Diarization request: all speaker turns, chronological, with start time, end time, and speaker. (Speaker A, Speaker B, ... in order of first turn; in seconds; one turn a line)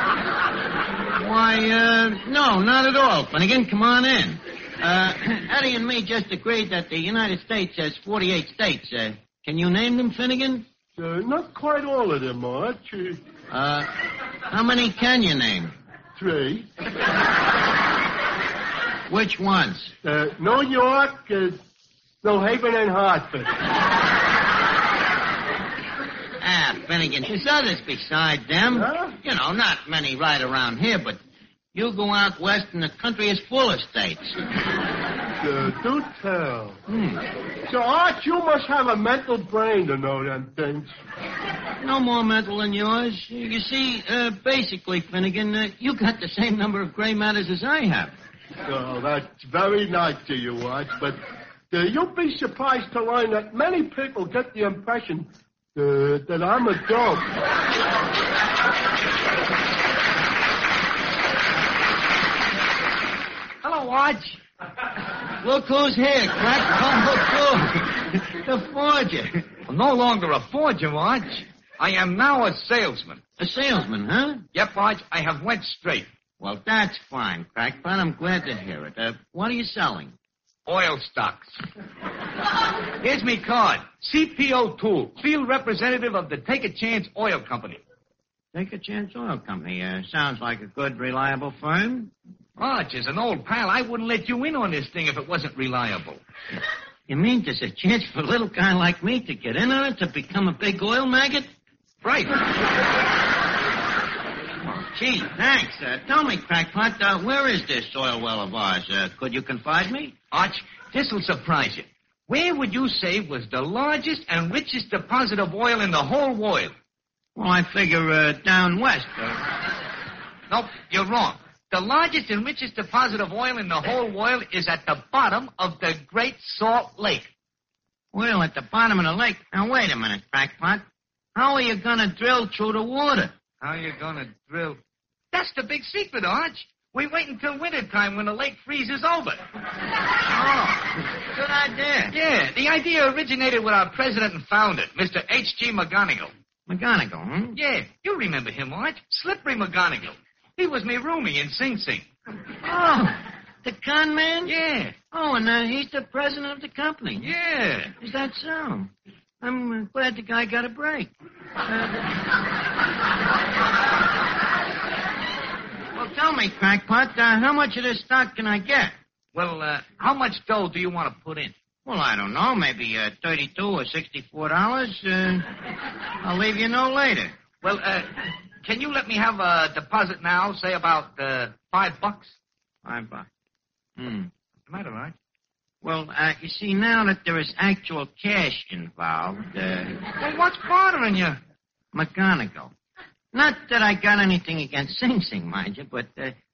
Speaker A: 1.1-10.7
Speaker B: 11.0-13.2
Speaker A: 13.5-13.9
Speaker A: 14.5-15.7
Speaker B: 16.2-16.7
Speaker A: 19.1-19.9
Speaker B: 20.0-21.6
Speaker B: 22.2-23.5
Speaker A: 26.4-31.2
Speaker B: 28.8-29.1
Speaker A: 31.8-34.4
Speaker B: 35.4-36.8
Speaker A: 36.9-37.2
Speaker B: 37.7-40.9
Speaker A: 41.8-48.1
Speaker B: 48.7-51.2
Speaker B: 51.7-57.3
Speaker C: 63.6-64.4
Speaker A: 65.4-69.5
Speaker C: 69.7-73.2
Speaker A: 73.4-74.4
Speaker C: 74.5-76.1
Speaker A: 76.4-80.1
Speaker C: 80.7-81.5
Speaker C: 83.0-87.8
Speaker A: 88.5-92.1
Speaker C: 92.6-96.2
Speaker A: 97.1-101.5
Speaker C: 102.0-102.3
Speaker A: 104.8-110.1
Speaker C: 110.3-116.7
Speaker A: 117.4-119.4
Speaker C: 120.5-127.3
Speaker A: 128.1-130.8
Speaker A: 131.3-133.3
Speaker C: 133.6-134.8
Speaker C: 135.3-139.4
Speaker A: 140.3-142.1
Speaker C: 142.1-146.3
Speaker A: 146.7-147.6
Speaker C: 147.6-152.1
Speaker A: 152.6-154.5
Speaker C: 154.5-154.9
Speaker A: 155.1-157.3
Speaker C: 157.2-157.9
Speaker A: 158.0-162.2
Speaker A: 165.9-168.9
Speaker C: 169.3-171.5
Speaker A: 171.9-175.5
Speaker A: 176.2-177.3
Speaker C: 177.6-182.3
Speaker A: 182.8-183.3
Speaker A: 184.0-184.3
Speaker C: 184.7-185.2
Speaker A: 185.8-190.0
Speaker C: 190.2-191.4
Speaker A: 191.9-192.7
Speaker A: 193.3-196.3